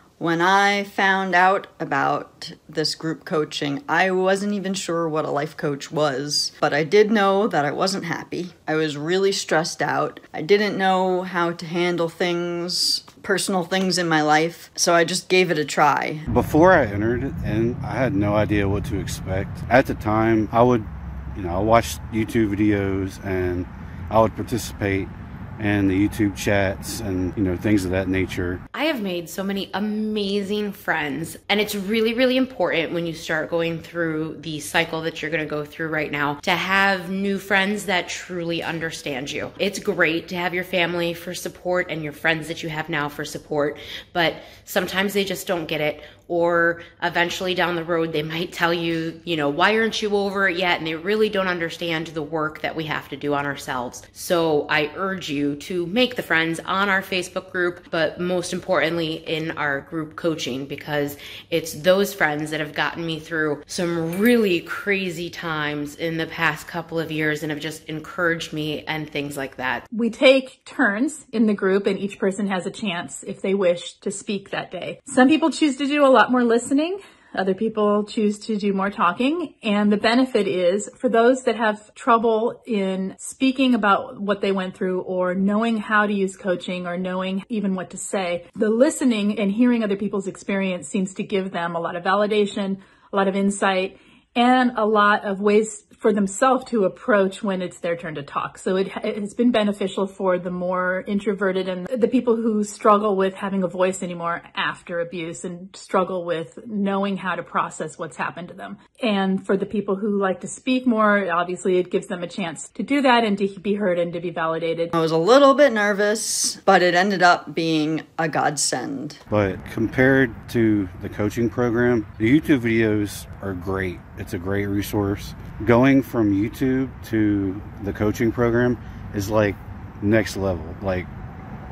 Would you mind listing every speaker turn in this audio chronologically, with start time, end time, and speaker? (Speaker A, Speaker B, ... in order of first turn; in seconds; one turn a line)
Speaker A: 0.2-16.3
Speaker B: 16.3-28.6
Speaker C: 28.7-69.8
Speaker D: 69.9-114.9
Speaker A: 114.9-119.2
Speaker B: 119.3-131.1